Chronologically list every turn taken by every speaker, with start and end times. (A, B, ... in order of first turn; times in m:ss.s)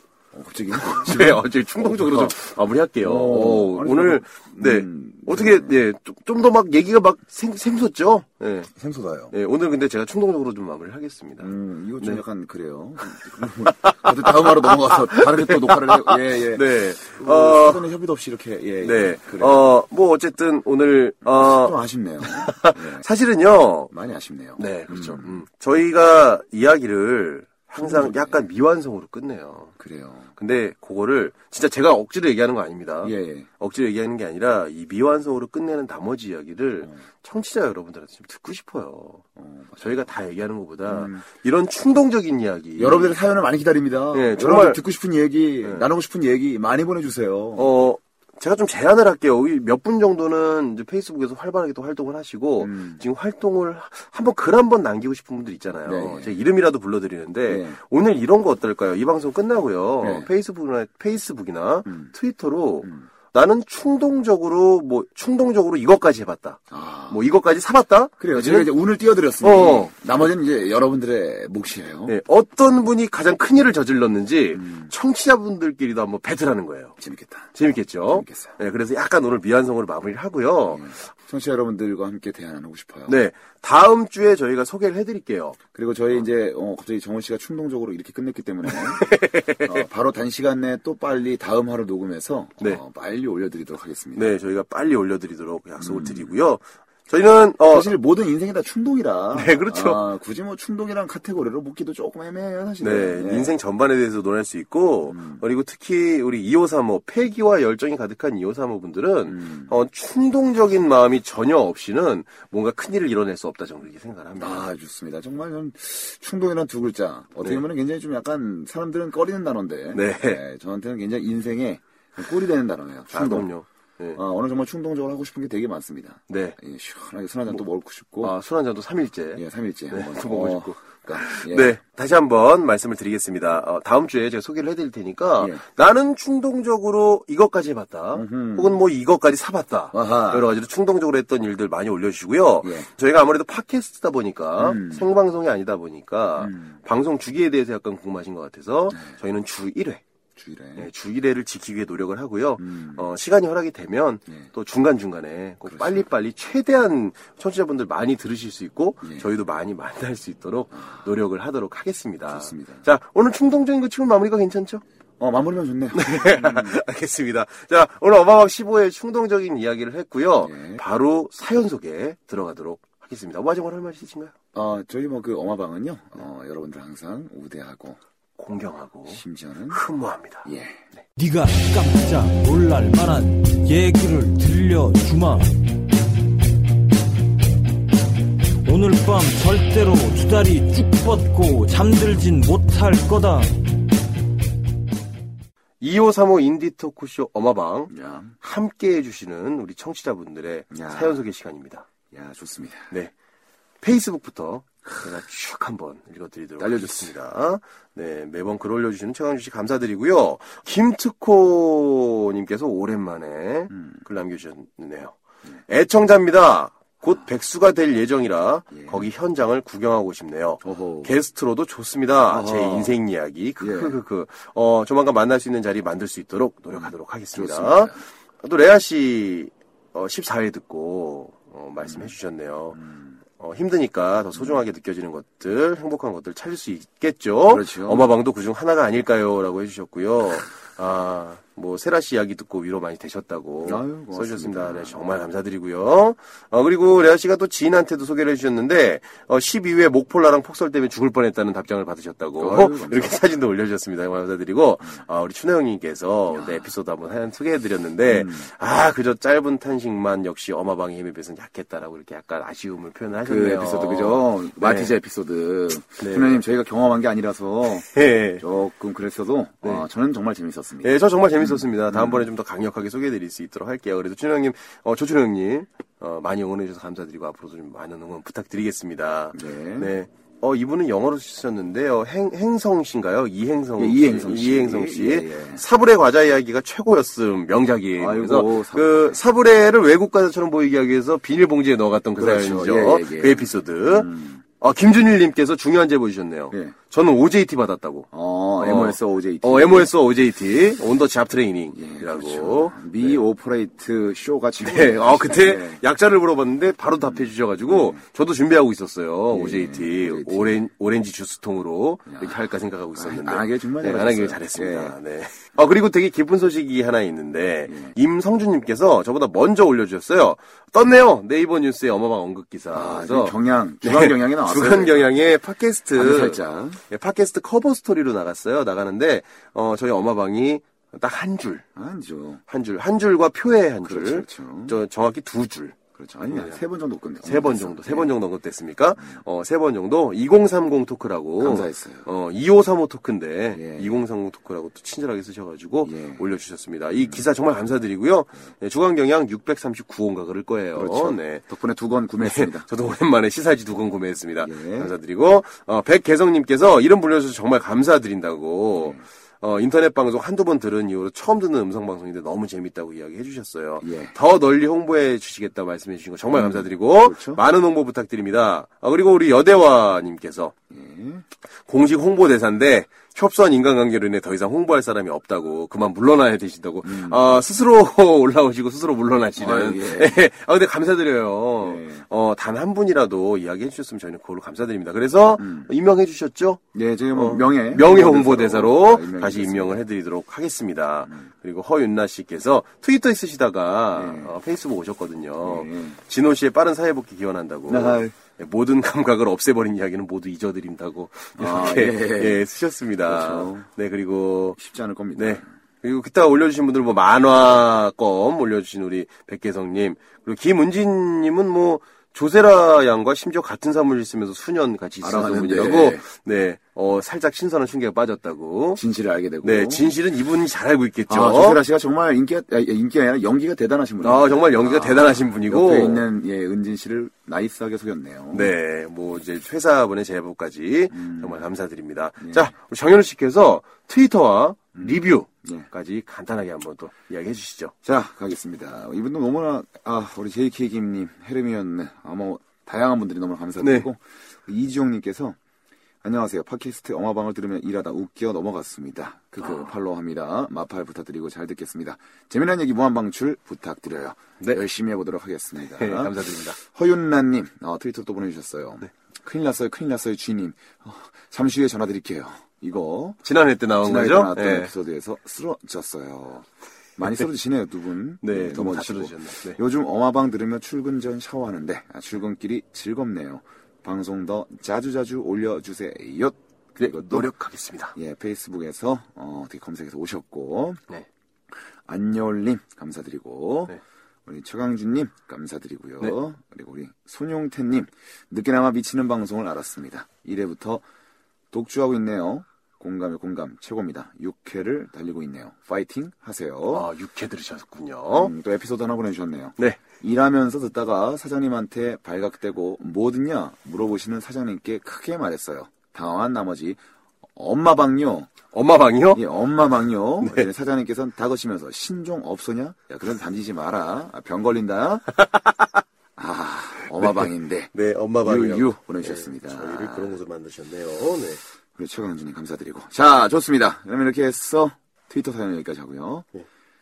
0:00.3-0:02.3 A
0:00.8-0:08.7 B
0:03.0-0:05.7 A
0:08.7-0:09.3 A
0:09.3-0:12.2 B
0:11.4-0:19.7 A
0:13.7-0:17.9 B
0:18.8-0:23.9 B
0:21.2-0:23.0 A
0:23.9-0:25.4 A
0:24.6-0:29.7 B
0:27.8-0:28.4 A
0:29.8-0:30.3 A
0:30.4-0:39.2 B
0:33.0-0:33.5 A
0:39.4-0:40.1 A
0:39.8-0:43.2 B
0:40.9-0:41.2 A
0:42.8-0:47.7 A
0:44.1-0:44.8 B
0:47.6-1:08.7 B
0:52.6-0:53.0 A
0:55.8-0:56.3 A
0:57.5-0:57.8 A
1:00.0-1:00.3 A
1:01.9-1:02.1 A
1:06.7-1:07.2 A
1:08.2-1:12.1 A
1:09.4-1:09.9 B
1:12.0-1:17.0 B
1:14.5-1:14.9 A
1:17.0-1:18.5 A
1:17.5-1:21.0 B
1:20.7-1:23.2 A
1:23.1-1:25.6 B
1:25.7-1:34.3 A
1:29.0-1:29.7 B
1:34.1-1:37.9 B
1:35.8-1:36.3 A
1:37.6-1:43.5 A
1:39.3-1:40.0 B
1:42.8-1:54.7 B
1:45.1-1:45.4 A
1:49.3-1:49.7 A
1:54.4-2:03.5 A
1:59.9-2:00.4 B
2:03.1-2:04.2 B
2:04.1-2:08.4 A
2:06.3-2:06.6 B
2:08.2-2:30.0 B
2:09.3-2:11.8 A
2:18.1-2:18.8 A
2:19.9-2:20.5 A
2:22.6-2:22.9 A
2:24.6-2:25.0 A
2:26.4-2:26.8 A
2:30.4-2:30.9 A
2:30.8-2:44.8 B
2:32.6-2:33.0 A
2:35.6-2:36.1 A
2:39.0-2:39.3 A
2:40.8-2:41.0 A
2:42.2-2:42.8 A
2:45.2-2:46.8 A
2:45.9-2:54.3 B
2:50.4-2:50.8 A
2:54.5-2:58.0 A
2:58.4-3:01.0 B
2:59.1-2:59.8 A
3:00.4-3:00.8 A
3:01.2-3:05.5 C
3:08.6-3:13.6 C
3:15.8-3:21.9 B
3:17.9-3:18.3 A
3:20.7-3:21.2 A
3:22.1-3:22.9 A
3:23.8-3:35.1 B
3:26.6-3:27.1 A
3:33.7-3:34.0 A
3:35.7-3:52.8 B
3:38.7-3:39.1 A
3:40.6-3:41.1 A
3:42.2-3:42.9 A
3:43.6-3:44.0 A
3:46.8-3:48.0 A
3:51.8-3:52.1 A
3:52.7-3:53.2 A
3:53.4-4:24.9 B
3:57.5-3:58.1 A
4:03.6-4:05.1 A
4:12.4-4:13.2 A
4:16.3-4:16.7 A
4:18.0-4:18.4 A
4:23.2-4:32.3 A
4:26.0-4:26.4 B
4:27.9-4:28.4 B
4:30.8-5:03.2 B
4:39.3-4:39.9 A
4:43.8-4:45.6 A
4:48.0-4:49.2 A
4:52.2-4:54.4 A
4:58.1-4:59.9 A
5:01.7-5:05.8 A
5:04.6-5:31.6 B
5:07.1-5:08.0 A
5:09.3-5:10.6 A
5:12.1-5:12.4 A
5:12.9-5:15.0 A
5:22.7-5:25.0 A
5:25.9-5:26.8 A
5:31.7-5:32.4 A
5:32.5-5:36.6 B
5:33.8-5:34.8 A
5:35.9-5:38.1 A
5:37.2-5:51.4 B
5:41.4-5:42.1 A
5:43.5-5:43.9 A
5:45.8-5:46.2 A
5:50.7-5:52.7 A
5:52.2-6:10.5 B
5:54.4-5:54.9 A
5:58.7-5:59.0 A
6:03.8-6:04.2 A
6:06.3-6:07.4 A
6:10.7-6:11.2 A
6:11.7-6:26.6 B
6:16.8-6:17.2 A
6:19.4-6:20.2 A
6:21.6-6:22.0 A
6:25.4-6:25.7 A
6:26.7-6:29.8 A
6:27.1-6:44.6 B
6:33.9-6:34.3 A
6:35.4-6:36.0 A
6:37.7-6:38.2 A
6:41.4-6:42.4 A
6:43.0-6:43.7 A
6:44.6-6:45.4 A
6:45.2-6:58.8 B
6:55.0-6:56.0 A
6:58.8-6:59.9 A
6:59.4-7:01.6 B
7:01.1-7:08.5 A
7:04.0-7:06.1 B
7:08.3-7:17.7 B
7:10.9-7:11.4 A
7:12.2-7:12.5 A
7:14.8-7:15.7 A
7:17.8-7:25.4 A
7:23.6-7:23.9 B
7:26.0-7:43.2 A
7:29.4-7:29.7 B
7:35.6-7:36.6 B
7:43.2-7:44.7 B
7:43.8-7:57.3 A
7:48.2-7:49.6 B
7:56.8-7:58.0 B
7:57.9-8:00.8 A
8:01.8-8:10.8 A
8:11.5-8:16.9 A
8:16.7-8:18.3 B
8:18.1-8:26.8 A
8:27.4-8:28.3 A
8:28.5-8:29.2 B
8:29.1-8:35.1 A
8:36.2-8:37.7 A
8:37.0-8:41.4 B
8:38.2-8:40.1 A
8:41.8-8:46.3 A